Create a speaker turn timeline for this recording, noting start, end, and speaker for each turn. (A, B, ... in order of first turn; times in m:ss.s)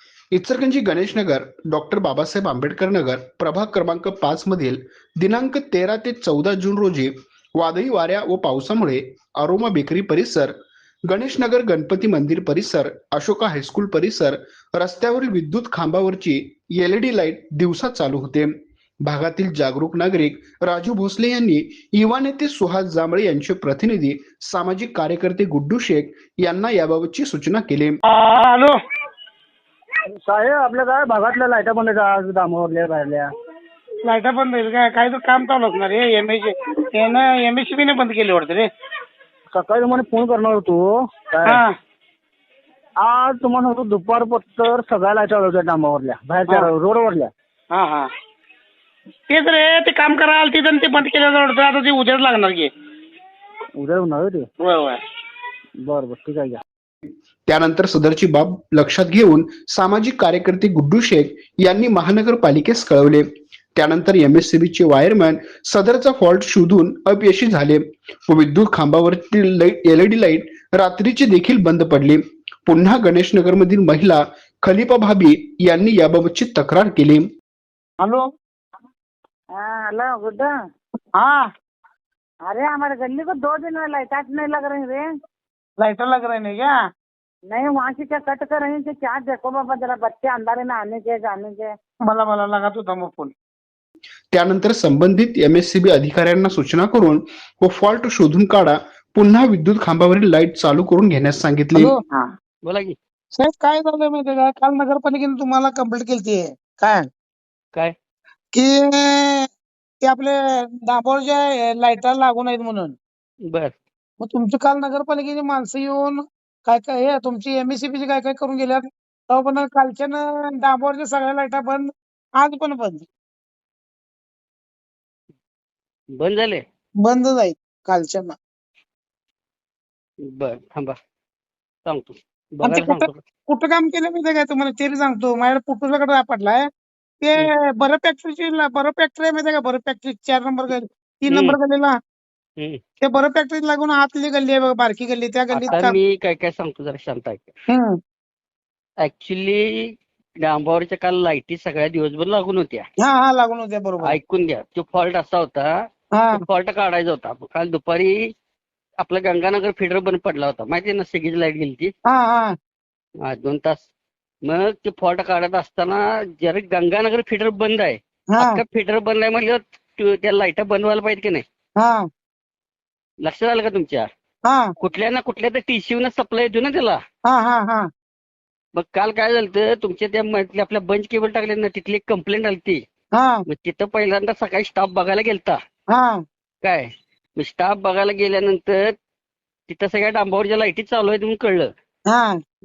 0:00.3-0:10.5 A
0:11.1-0:18.5 A
0:19.0-0:28.0 A
0:28.3-0:28.7 B
0:30.2-0:33.3 C
0:34.1-0:38.7 B
0:39.5-0:41.6 C
0:43.0-0:47.3 C
0:47.8-0:48.0 B
0:49.3-0:52.7 B
0:53.8-0:54.5 C
0:55.8-0:56.6 C
0:57.5-1:17.3 A
1:19.6-1:20.5 D
1:21.2-1:21.4 B
1:22.5-1:25.0 D
1:25.8-1:26.7 B
1:27.5-1:31.7 D
1:32.0-1:33.3 B
1:34.3-1:42.0 A
1:41.8-1:42.3 B
1:42.7-1:43.0 E
1:43.4-1:47.0 B
1:48.5-1:49.5 B
1:50.0-1:53.0 B
1:53.5-1:53.8 E
1:54.2-2:03.1 B
2:06.2-2:06.6 E
2:07.0-2:08.4 B
2:10.3-2:11.0 E
2:11.9-2:13.2 E
2:12.6-2:16.6 B
2:17.2-2:22.0 B
2:21.3-2:21.6 E
2:23.0-2:26.0 B
2:25.5-2:27.5 E
2:27.7-2:28.0 B
2:29.0-2:29.9 E
2:30.4-2:32.8 E
2:33.0-2:34.2 B
2:34.0-2:35.7 E
2:36.2-2:36.4 B
2:36.3-2:38.2 E
2:39.0-2:41.9 E
2:42.1-2:42.5 B
2:43.3-2:43.9 E
2:44.4-2:51.4 E
2:48.3-2:48.6 B
2:53.2-2:54.1 E
2:54.8-2:57.0 E
2:57.3-2:57.9 B
2:58.7-3:02.8 E
3:03.2-3:03.4 B
3:03.5-3:05.6 E
3:05.9-3:06.2 B
3:06.6-3:08.9 E
3:09.7-3:11.7 E